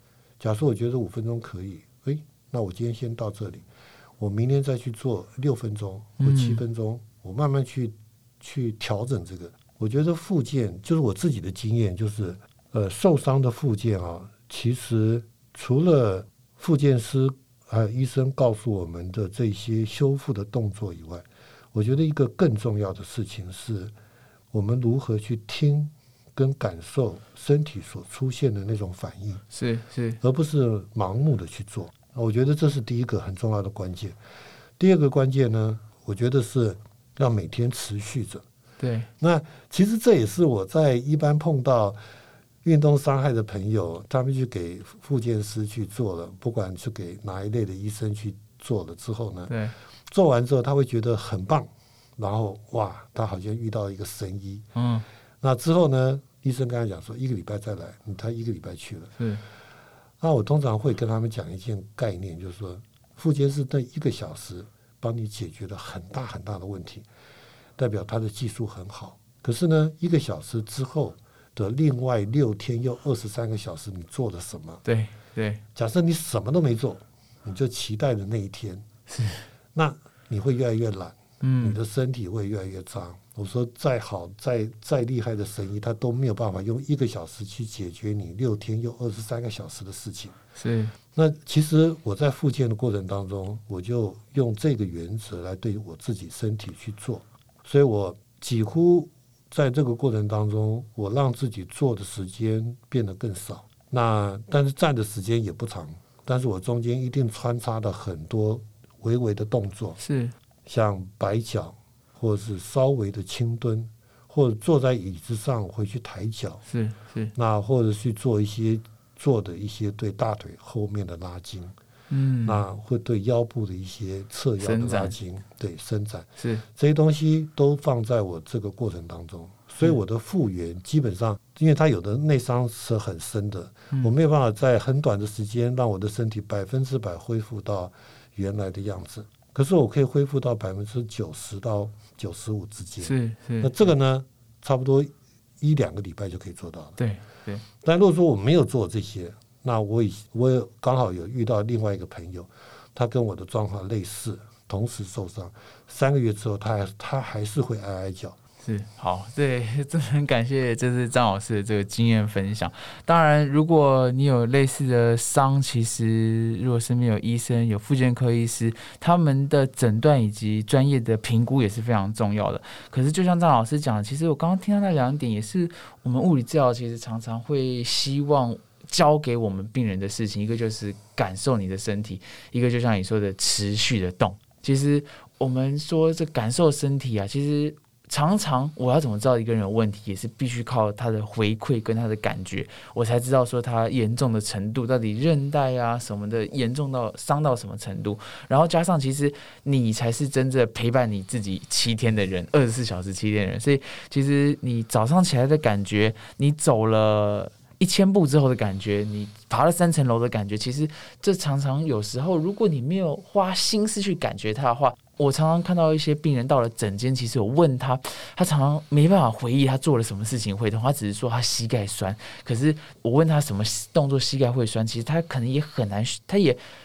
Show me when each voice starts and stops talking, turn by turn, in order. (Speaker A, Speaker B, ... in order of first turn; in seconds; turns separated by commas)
Speaker A: 0.4-3.6, Speaker A: 4.2-23.9, Speaker B: 6.2-6.6, Speaker A: 24.5-29.4, Speaker B: 29.5-30.2, Speaker A: 30.2-34.1, Speaker A: 34.8-38.4, Speaker B: 38.8-39.1, Speaker A: 39.2-42.0, Speaker A: 42.6-49.5, Speaker B: 49.5-49.7, Speaker A: 50.1-54.6, Speaker B: 54.7-55.0, Speaker A: 55.4-59.2, Speaker B: 59.2-59.4, Speaker A: 60.2-67.1, Speaker A: 67.8-74.8, Speaker B: 74.8-75.6, Speaker A: 75.7-78.8, Speaker B: 79.1-79.4, Speaker A: 79.7-90.3, Speaker B: 81.4-81.8, Speaker B: 90.5-90.9, Speaker A: 91.1-110.0, Speaker B: 110.0-110.3, Speaker A: 110.7-116.6, Speaker B: 116.7-117.3, Speaker A: 117.3-121.7, Speaker B: 122.1-122.6, Speaker A: 122.4-147.0, Speaker B: 124.6-125.2, Speaker B: 126.4-126.6, Speaker B: 143.0-143.9, Speaker B: 147.0-147.6, Speaker A: 147.8-158.3, Speaker B: 158.6-226.6